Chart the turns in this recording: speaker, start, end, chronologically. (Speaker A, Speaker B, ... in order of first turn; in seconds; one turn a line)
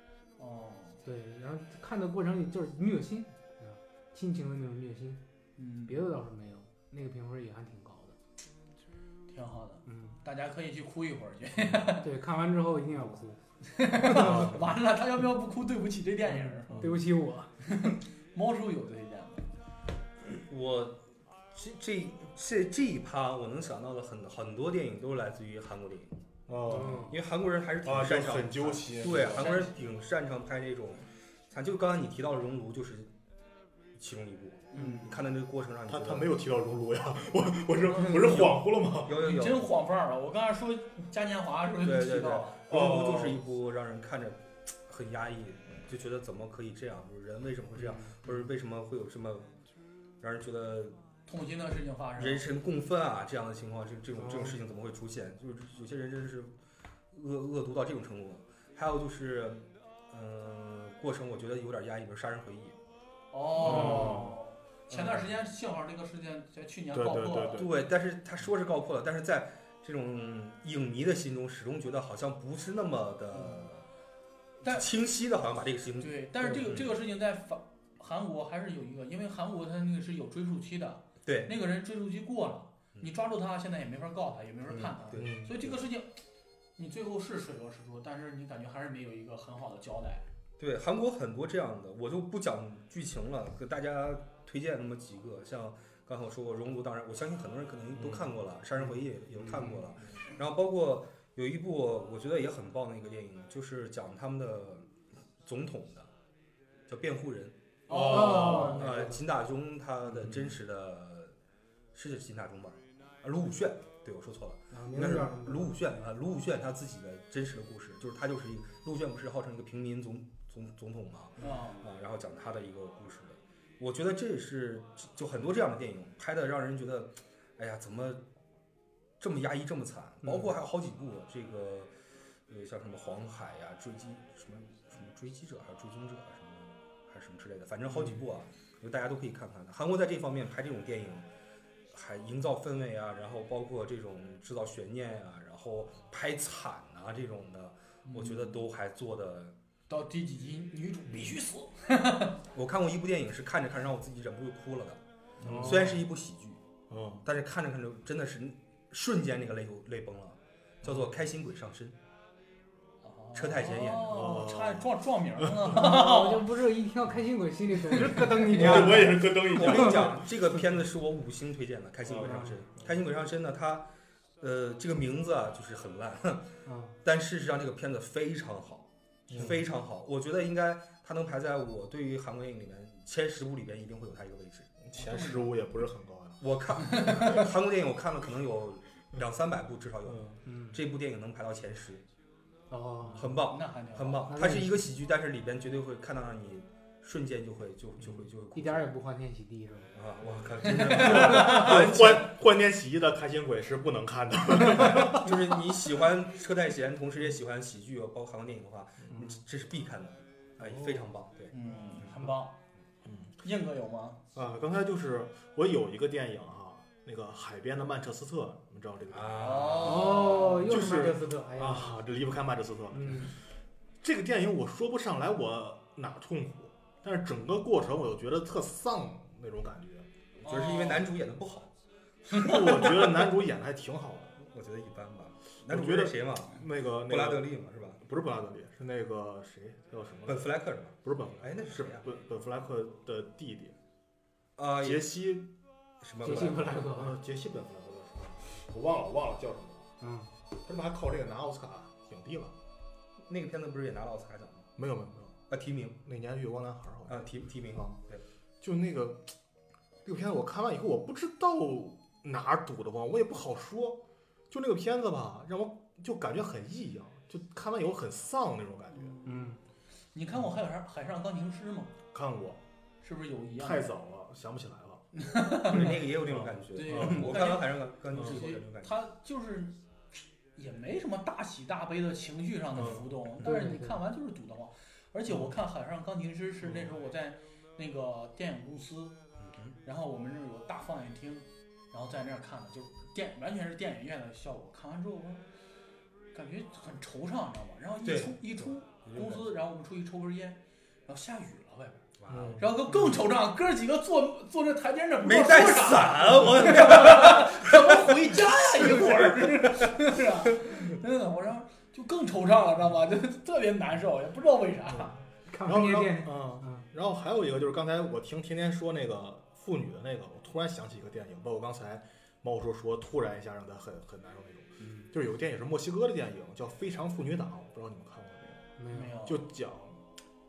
Speaker A: 0.4-1.0
Speaker B: 1.0-5.2
Speaker A: 5.6-6.1
Speaker B: 5.9-8.2
Speaker A: 9.3-12.1
Speaker B: 9.9-10.2
Speaker B: 12.0-13.4
Speaker A: 13.7-16.8
Speaker B: 14.1-14.6
Speaker C: 14.1-14.6
Speaker B: 16.3-17.5
Speaker A: 17.6-19.5
Speaker C: 20.3-21.0
Speaker C: 21.5-26.2
Speaker D: 26.5-27.1
Speaker B: 26.7-27.2
Speaker C: 27.1-33.1
Speaker D: 27.8-29.5
Speaker A: 29.1-29.8
Speaker C: 34.0-36.3
Speaker A: 34.7-35.2
Speaker D: 35.9-39.2
Speaker A: 38.0-38.2
Speaker C: 38.2-39.7
Speaker A: 39.2-42.6
Speaker C: 41.8-49.5
Speaker D: 42.7-43.4
Speaker B: 47.8-48.2
Speaker C: 50.2-51.0
Speaker A: 51.3-52.5
Speaker C: 52.2-56.5
Speaker B: 54.2-54.6
Speaker C: 57.1-62.8
Speaker A: 63.3-67.7
Speaker D: 63.6-64.3
Speaker C: 63.7-64.2
Speaker B: 63.8-64.2
Speaker D: 66.9-67.7
Speaker C: 67.6-73.8
Speaker A: 73.3-73.7
Speaker C: 74.6-76.9
Speaker A: 76.0-86.2
Speaker C: 81.2-81.5
Speaker C: 84.7-85.7
Speaker D: 85.2-85.6
Speaker A: 86.8-90.2
Speaker C: 90.6-104.9
Speaker D: 98.0-98.3
Speaker D: 99.4-99.6
Speaker C: 105.4-106.1
Speaker C: 106.9-111.3
Speaker A: 107.9-108.9
Speaker D: 107.9-109.0
Speaker B: 108.0-109.2
Speaker D: 110.0-110.6
Speaker C: 111.9-128.2
Speaker B: 114.7-115.8
Speaker A: 121.4-121.9
Speaker C: 129.2-131.9
Speaker C: 132.5-141.3
Speaker C: 141.9-149.5
Speaker A: 148.1-148.6
Speaker A: 149.9-152.4
Speaker C: 152.5-156.6
Speaker D: 155.4-156.0
Speaker A: 155.4-155.8
Speaker D: 156.9-157.2
Speaker C: 157.2-162.0
Speaker A: 163.0-166.5
Speaker C: 163.3-164.2
Speaker D: 164.1-164.9
Speaker B: 165.7-170.1
Speaker D: 168.4-170.3
Speaker C: 168.5-173.9
Speaker D: 172.0-172.9
Speaker B: 172.2-172.6
Speaker C: 174.4-176.5
Speaker B: 176.7-176.9
Speaker C: 177.0-184.7
Speaker D: 179.3-179.6
Speaker D: 184.8-186.4
Speaker A: 185.0-185.5
Speaker C: 186.4-192.0
Speaker A: 187.0-187.4
Speaker D: 190.1-190.4
Speaker B: 190.5-190.8
Speaker B: 192.7-193.3
Speaker C: 193.2-198.9
Speaker A: 193.4-194.4
Speaker B: 194.3-194.9
Speaker B: 198.5-199.9
Speaker C: 199.9-202.3
Speaker A: 200.7-201.8
Speaker D: 200.8-205.4
Speaker C: 204.7-211.5
Speaker D: 210.6-211.0
Speaker A: 211.5-212.6
Speaker D: 213.1-213.3
Speaker A: 213.4-214.2
Speaker D: 214.3-219.8
Speaker C: 219.1-220.4
Speaker A: 219.4-220.6
Speaker B: 219.8-222.0
Speaker D: 220.4-223.3
Speaker B: 222.9-223.3
Speaker D: 224.0-230.1
Speaker A: 230.4-231.1
Speaker C: 230.4-231.7
Speaker D: 232.3-234.4
Speaker A: 232.3-232.8
Speaker C: 234.4-238.0
Speaker D: 235.7-243.8
Speaker C: 240.3-242.1
Speaker C: 244.6-245.1
Speaker D: 244.8-245.5
Speaker C: 246.0-246.8
Speaker B: 246.2-247.2
Speaker D: 246.2-249.9
Speaker B: 250.0-250.3
Speaker D: 250.6-252.5
Speaker C: 253.3-254.7
Speaker D: 254.8-255.3
Speaker C: 255.5-256.0
Speaker D: 256.0-257.2
Speaker C: 257.1-258.2
Speaker D: 258.6-259.3
Speaker D: 260.1-264.0
Speaker D: 264.5-269.2
Speaker A: 268.9-269.6
Speaker B: 269.3-269.6
Speaker A: 270.1-272.0
Speaker D: 272.1-272.6
Speaker A: 273.0-273.9
Speaker D: 273.6-275.0
Speaker A: 275.1-276.0
Speaker C: 275.7-278.9
Speaker D: 276.2-277.4
Speaker A: 276.7-279.8
Speaker D: 278.1-278.4
Speaker A: 280.6-289.2
Speaker D: 282.8-283.1
Speaker B: 283.4-284.0
Speaker C: 289.4-289.8
Speaker A: 289.8-295.4
Speaker A: 296.3-302.0
Speaker C: 298.1-299.5
Speaker C: 302.2-302.7
Speaker D: 302.3-302.7
Speaker A: 302.6-315.1
Speaker C: 305.2-310.0
Speaker D: 314.9-328.6
Speaker B: 315.5-316.9
Speaker B: 328.8-329.2
Speaker A: 328.9-329.5
Speaker D: 329.2-330.0